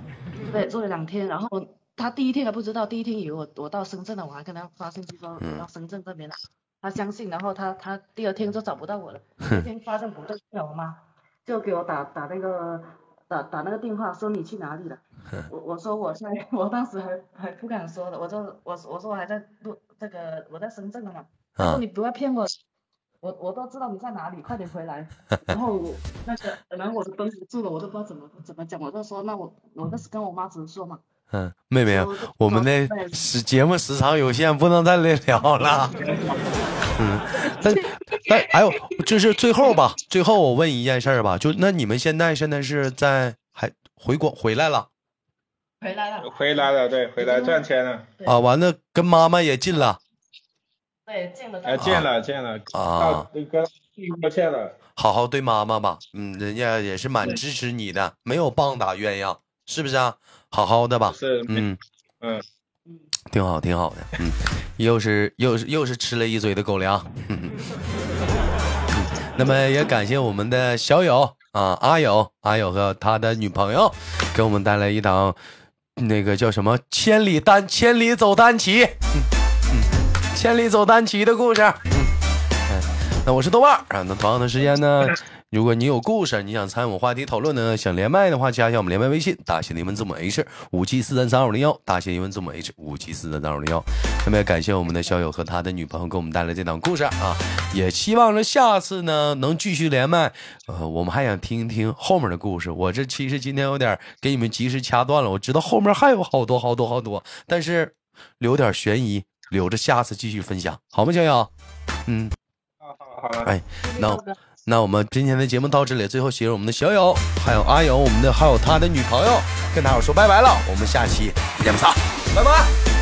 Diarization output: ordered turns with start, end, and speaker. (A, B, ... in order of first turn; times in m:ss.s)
0:00.4-0:22.5 A
0:21.6-0:21.8 B
0:23.2-0:31.0 A
0:31.3-0:36.0 B
0:31.9-0:33.2 A
0:35.9-0:36.3 A
0:37.0-0:44.9 B
0:37.3-0:39.0 A
0:45.8-0:47.7 A
0:46.2-0:48.1 C
0:48.2-0:50.0 B
0:51.1-0:52.0 A
0:51.6-0:54.8 C
0:51.8-0:52.1 B
0:52.7-0:53.3 B
0:55.0-1:01.8 B
1:01.1-1:01.7 C
1:03.3-1:07.6 B
1:08.9-1:15.4 B
1:16.0-1:22.1 B
1:22.6-1:51.5 B
1:52.1-1:52.3 B
1:52.8-1:53.5 C
1:53.4-2:02.2 B
1:53.8-1:54.4 A
2:02.3-2:02.7 C